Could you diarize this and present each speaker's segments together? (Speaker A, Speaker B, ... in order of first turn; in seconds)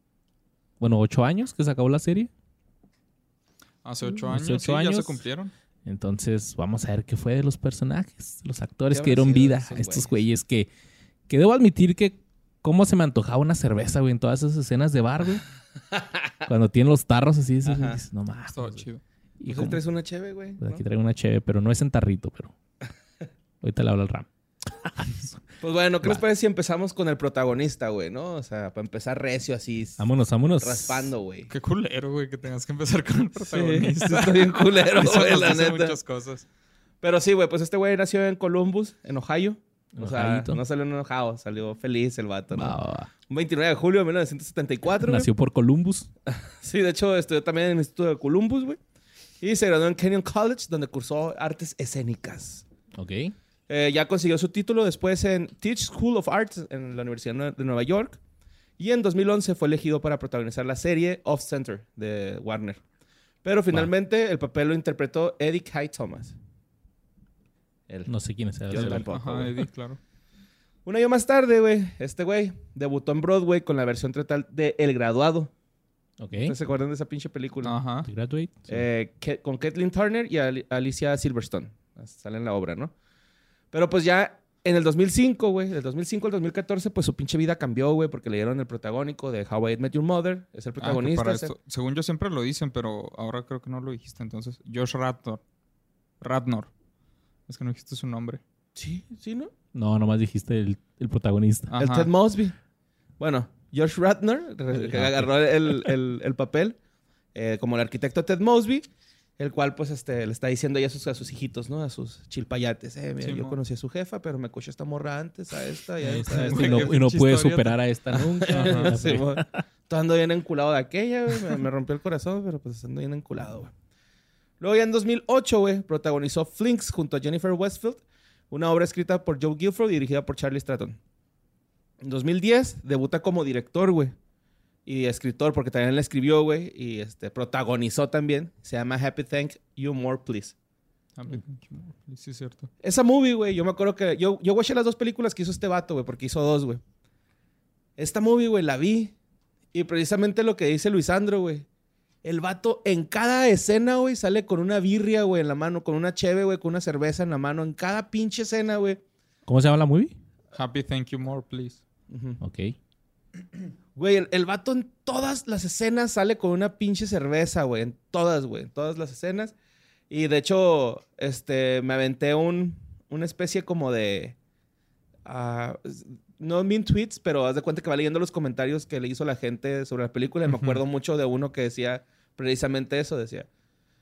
Speaker A: 0.8-2.3, 4.2-5.2, 5.8-10.7, 11.3-15.4, 16.4-18.8, 19.4-19.8, 20.6-22.5, 23.6-25.4, 30.0-31.1, 40.0-40.6, 42.5-43.1, 45.0-46.1, 53.0-53.3, 68.1-69.0, 76.2-76.5, 78.0-78.8, 99.7-101.7, 104.9-105.3, 116.0-119.6, 159.5-160.1, 162.4-162.7
Speaker B: 3.8-5.5, 18.5-19.0, 31.5-36.4, 68.7-70.0, 77.6-78.1, 90.8-95.4, 96.2-96.7, 97.5-98.4, 101.7-102.1, 113.2-113.6, 116.3-117.8, 118.5-119.0, 141.2-142.7, 160.5-161.8
Speaker C: 8.9-10.2, 17.6-18.0, 19.5-20.8, 25.6-30.1, 30.6-31.5, 33.4-36.0, 37.0-45.3, 46.3-48.8, 49.4-52.6, 53.7-58.2, 58.8-62.8, 63.4-66.3, 68.7-69.5, 70.8-75.5, 76.4-77.8, 78.7-82.9, 83.7-91.5, 98.8-99.5, 101.8-102.5, 103.2-106.8, 107.3-108.9, 109.4-117.0, 118.1-123.7, 124.6-131.0, 132.0-134.1, 134.8-140.5, 142.8-146.8, 148.0-149.1, 149.7-151.7, 152.2-159.0, 162.1-162.4, 163.9-169.5, 170.1-174.3, 175.2-183.5